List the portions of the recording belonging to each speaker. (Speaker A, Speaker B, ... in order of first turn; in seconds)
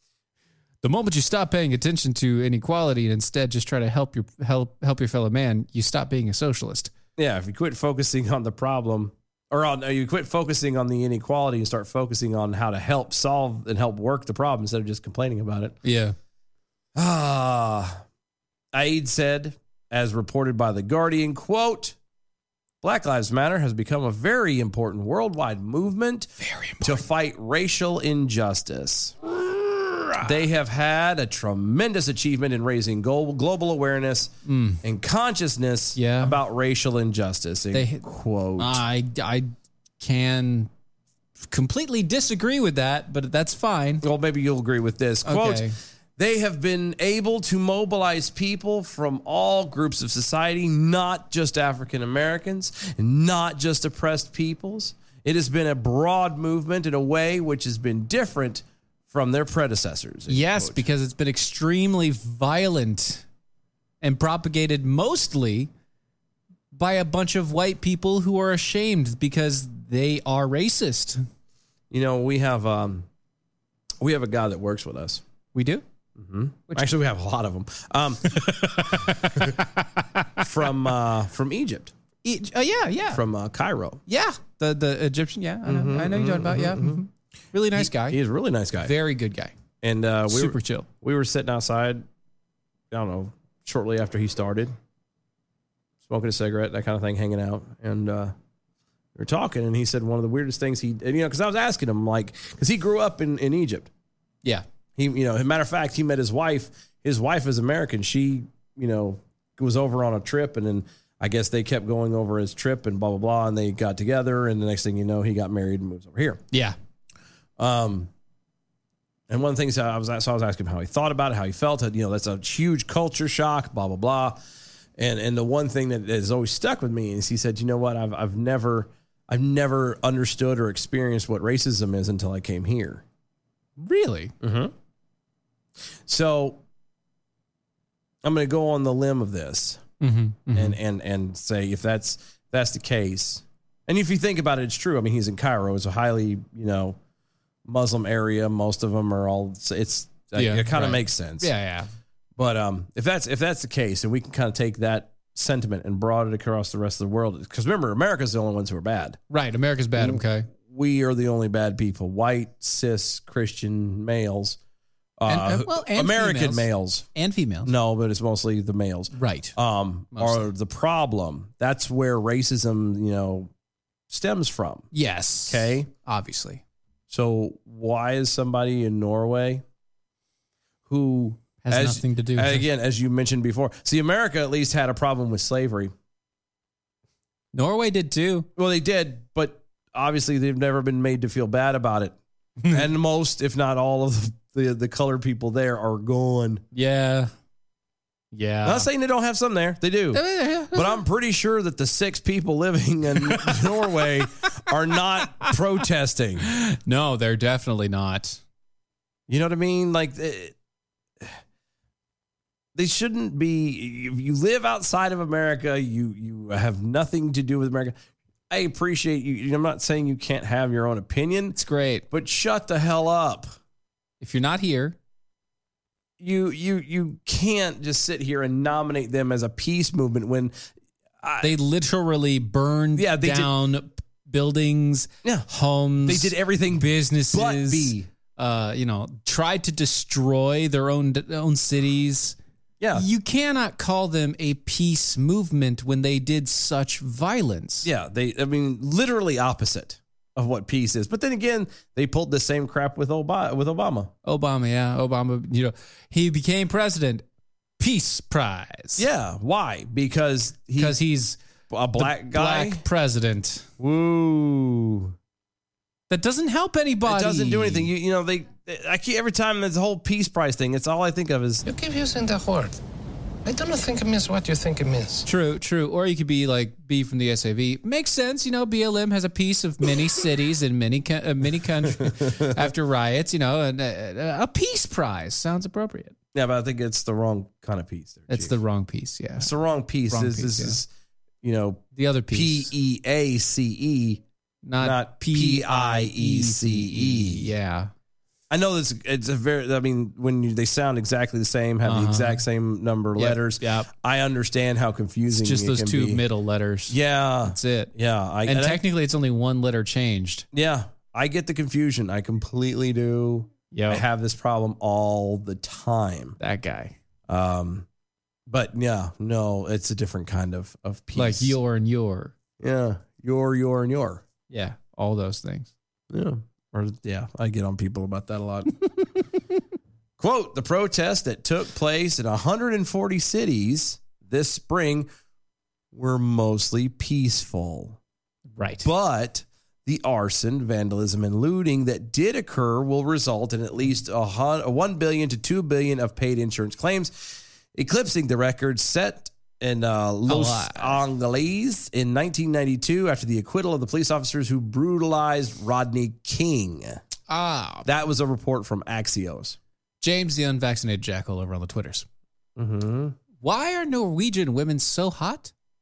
Speaker A: 0.8-6.9, 15.8-16.1, 26.4-27.0, 34.5-34.8, 36.0-36.4, 37.7-38.0, 38.6-40.7, 41.5-44.0, 45.2-45.8, 60.3-63.2, 64.0-65.7, 66.7-71.2, 75.5-75.8, 78.9-79.5, 82.2-83.2, 84.1-88.2, 88.8-89.5, 90.3-90.9, 116.5-116.8, 133.8-134.3, 140.0-140.8, 150.3-151.9, 159.3-160.5, 165.3-167.7, 169.1-169.5, 170.1-170.5, 174.9-176.6, 181.6-182.7, 187.5-188.5, 192.6-192.9, 196.7-197.3, 198.3-198.9, 200.1-201.0, 203.3-203.8, 206.5-208.4, 221.6-222.1, 224.2-224.9, 231.4-242.3, 242.9-247.9, 254.2-257.2, 257.8-259.0, 260.8-261.4, 262.0-263.7, 266.1-267.9, 275.2-286.1, 288.3-289.5, 290.1-290.8, 291.9-292.7, 294.6-297.9, 301.8-302.4, 303.1-303.9, 305.3-307.9, 308.4-310.4, 313.7-314.0, 316.4-316.9, 321.1-322.3, 324.5-325.7, 338.6-338.9, 350.3-351.0, 357.3-357.9, 360.0-362.1, 363.4-365.5
Speaker B: 7.2-15.7, 16.9-18.0, 18.7-21.9, 22.8-26.3, 26.8-29.1, 30.2-38.8, 44.0-60.9, 71.9-73.1, 74.0-75.2, 76.2-79.5, 80.4-81.9, 83.1-84.0, 85.7-87.0, 87.7-88.9, 89.8-92.0, 92.9-94.7, 96.0-98.3, 99.1-103.9, 105.0-116.4, 117.6-118.1, 119.3-124.4, 125.0-133.0, 134.4-134.7, 136.1-136.6, 138.2-139.8, 140.5-147.0, 147.6-151.5, 152.3-159.2, 160.0-164.6, 165.2-167.1, 167.6-173.5, 174.1-174.9, 175.5-175.9, 177.1-179.6, 180.9-185.9, 188.6-192.2, 192.7-196.6, 198.6-206.5, 209.3-210.5, 212.7-217.9, 218.5-221.6, 222.1-223.5, 226.2-230.5, 231.2-231.5, 232.9-233.5, 235.2-235.5, 236.0-238.1, 242.8-243.0, 247.8-254.1, 259.0-261.0, 261.7-262.8, 263.8-265.1, 267.0-271.6, 282.0-282.4, 286.3-288.5, 289.4-290.9, 291.4-294.2, 294.8-297.5, 298.5-306.2, 306.9-308.8, 310.5-316.4, 317.3-317.9, 318.5-321.6, 322.6-324.2, 326.1-328.7, 330.2-335.1, 335.9-338.0, 338.8-357.0, 357.8-359.6, 362.6-363.1
Speaker C: 271.6-272.8, 273.4-275.3